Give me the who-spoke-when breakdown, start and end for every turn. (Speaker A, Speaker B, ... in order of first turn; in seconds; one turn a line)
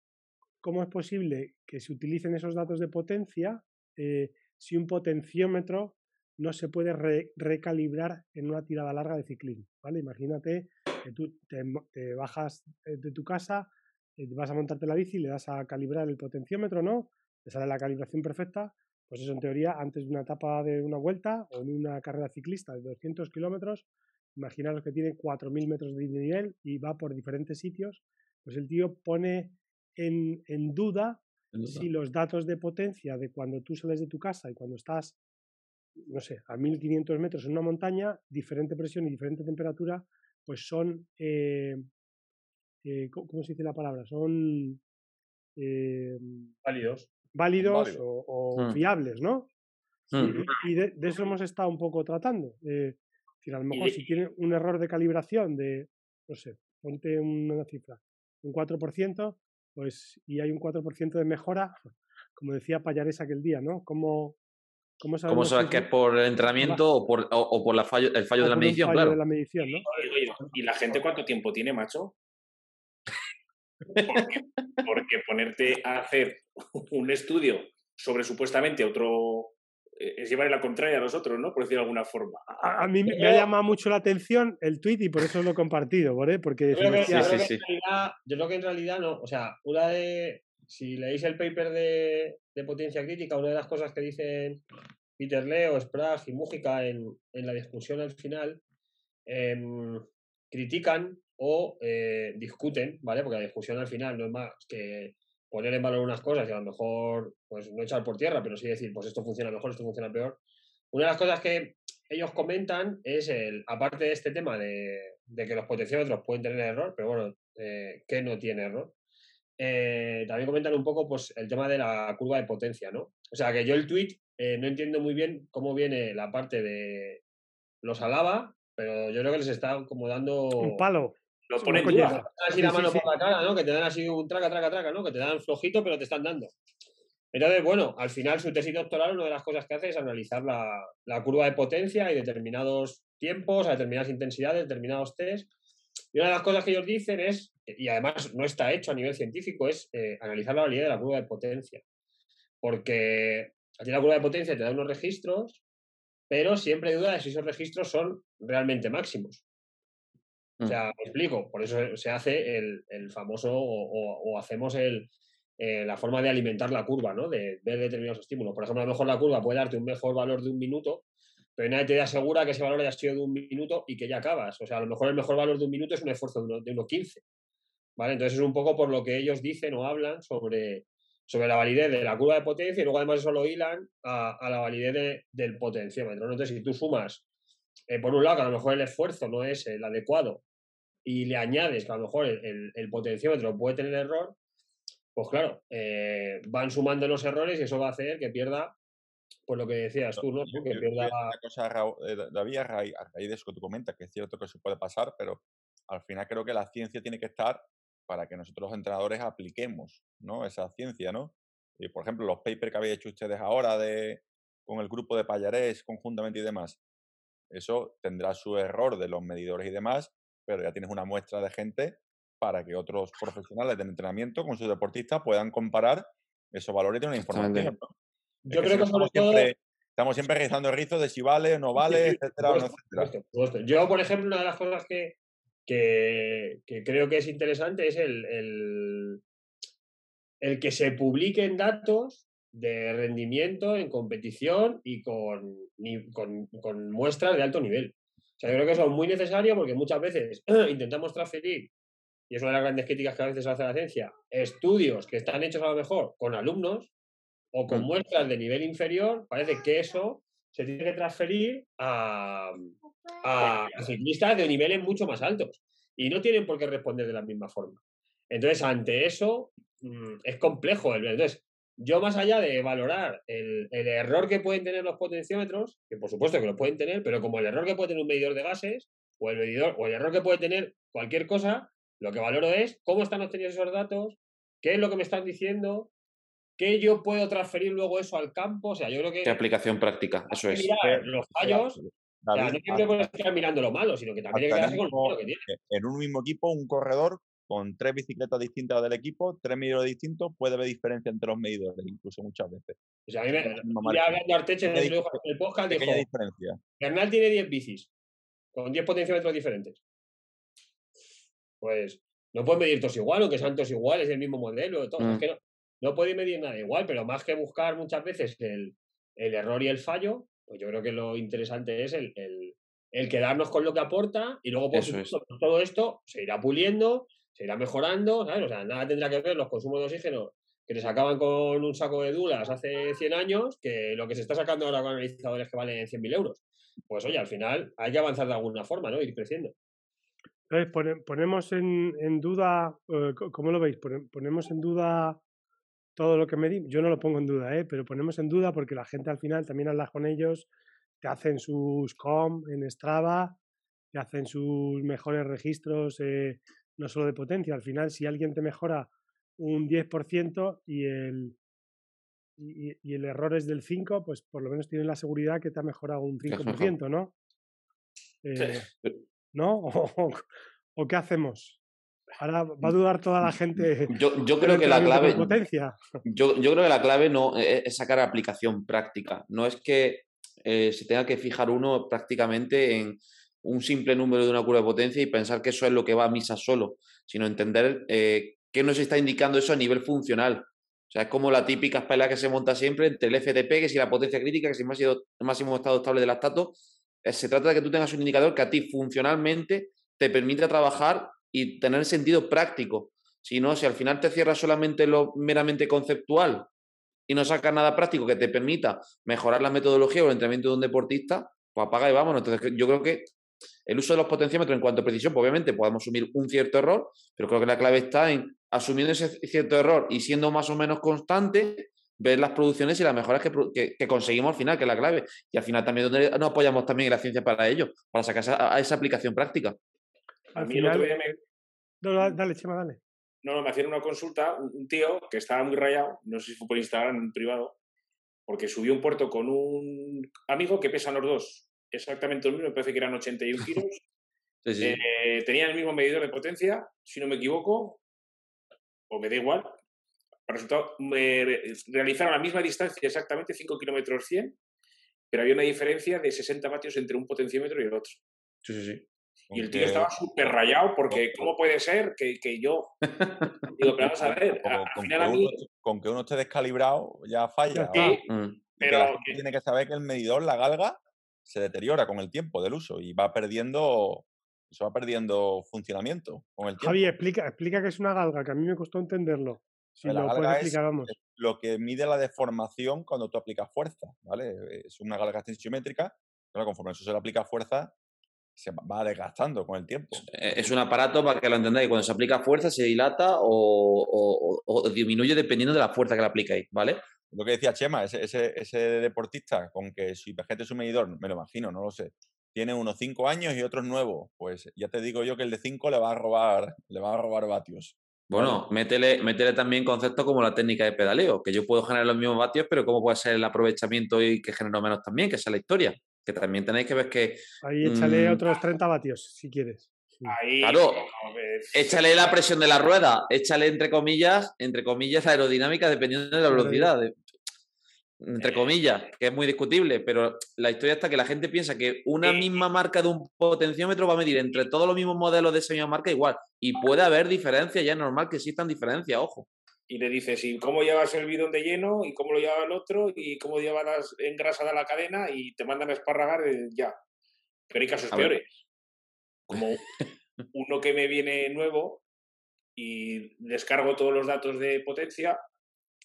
Speaker A: 0.6-35.2
Speaker B: 31.5-31.9
Speaker A: 36.1-41.9
Speaker A: 42.8-44.8
Speaker A: 45.6-46.5
Speaker C: 46.6-47.1
Speaker A: 47.3-49.5
Speaker D: 47.6-48.0
Speaker B: 48.5-48.8
Speaker B: 50.1-50.5
Speaker A: 50.2-61.8
Speaker E: 53.7-54.2
Speaker A: 62.4-64.4
Speaker A: 65.0-65.9
Speaker B: 65.3-69.2
Speaker A: 68.4-69.9
Speaker E: 69.8-72.2
Speaker E: 74.0-82.5
Speaker B: 74.1-74.7
Speaker A: 82.6-87.3
Speaker C: 86.7-94.6
Speaker B: 87.1-87.6
Speaker C: 95.2-98.6
Speaker C: 99.3-110.4
Speaker C: 110.9-118.9
Speaker C: 119.6-127.2
Speaker C: 127.8-130.9
Speaker A: 130.6-133.1
Speaker E: 131.5-132.3
Speaker C: 132.1-136.5
Speaker C: 137.3-145.5
Speaker C: 146.1-151.8
Speaker C: 152.6-155.6
Speaker C: 156.3-159.4
Speaker C: 160.7-171.1
Speaker C: 171.6-177.2
Speaker C: 178.0-187.2
Speaker C: 187.9-190.4
Speaker C: 191.1-194.4
Speaker C: 195.2-198.8
Speaker C: 199.5-201.4
Speaker D: 200.2-216.8
Speaker D: 217.5-227.9
Speaker B: 227.2-227.7
Speaker C: 228.5-229.5
Speaker D: 228.5-233.1
Speaker C: 231.8-239.2
Speaker C: 240.4-251.7
Speaker C: 252.3-256.9
Speaker C: 257.5-285.9
Speaker C: 286.6-289.4
Speaker B: 289.2-290.7
Speaker C: 290.3-291.8
Speaker D: 290.8-293.1
Speaker C: 292.3-295.5
Speaker D: 294.3-302.8
Speaker C: 303.1-306.1
Speaker D: 303.3-306.6
Speaker C: 306.8-307.9
Speaker C: 308.6-309.8
Speaker C: 311.6-339.5
Speaker B: 324.7-325.1
Speaker A: 340.5-345.2
Speaker A: 346.0-350.5
Speaker A: 351.0-353.4
Speaker A: 353.9-361.4
Speaker A: 362.4-367.1
Speaker B: 366.2-366.8
Speaker A: 368.2-368.7
Speaker A: 369.3-370.2
Speaker A: 370.8-371.6
Speaker A: 372.2-376.0
Speaker B: 372.6-375.4
Speaker B: 376.1-406.5
Speaker B: 407.1-413.1
Speaker B: 413.7-429.6
Speaker A: 430.4-431.0
Speaker E: 430.4-431.2
Speaker A: 431.8-432.8
Speaker E: 433.2-437.6
Speaker E: 438.3-443.8
Speaker B: 444.4-444.8
Speaker E: 444.6-447.8
Speaker E: 448.9-449.6
Speaker E: 450.3-454.4
Speaker E: 455.1-458.0
Speaker B: 458.4-458.9
Speaker D: 459.3-459.9
Speaker E: 459.3-462.7
Speaker D: 460.9-461.3
Speaker B: 463.0-463.3
Speaker E: 463.6-465.4
Speaker D: 463.8-468.0
Speaker A: 467.5-468.0
Speaker B: 467.8-468.4
Speaker E: 468.6-469.2
Speaker D: 468.6-476.9
Speaker A: 476.6-480.9
Speaker D: 479.9-487.7
Speaker D: 488.4-490.5
Speaker B: 490.1-496.8
Speaker D: 497.1-508.4
Speaker B: 508.1-518.2
Speaker A: 517.4-520.1
Speaker E: 520.0-522.2
Speaker B: 520.4-520.9
Speaker B: 521.5-526.9
Speaker A: 526.3-526.7
Speaker B: 528.0-539.3
Speaker E: 528.2-528.6
Speaker E: 532.0-532.5
Speaker E: 539.7-546.7
Speaker E: 547.5-548.3
Speaker E: 549.3-549.6
Speaker E: 550.3-551.8
Speaker E: 552.6-555.2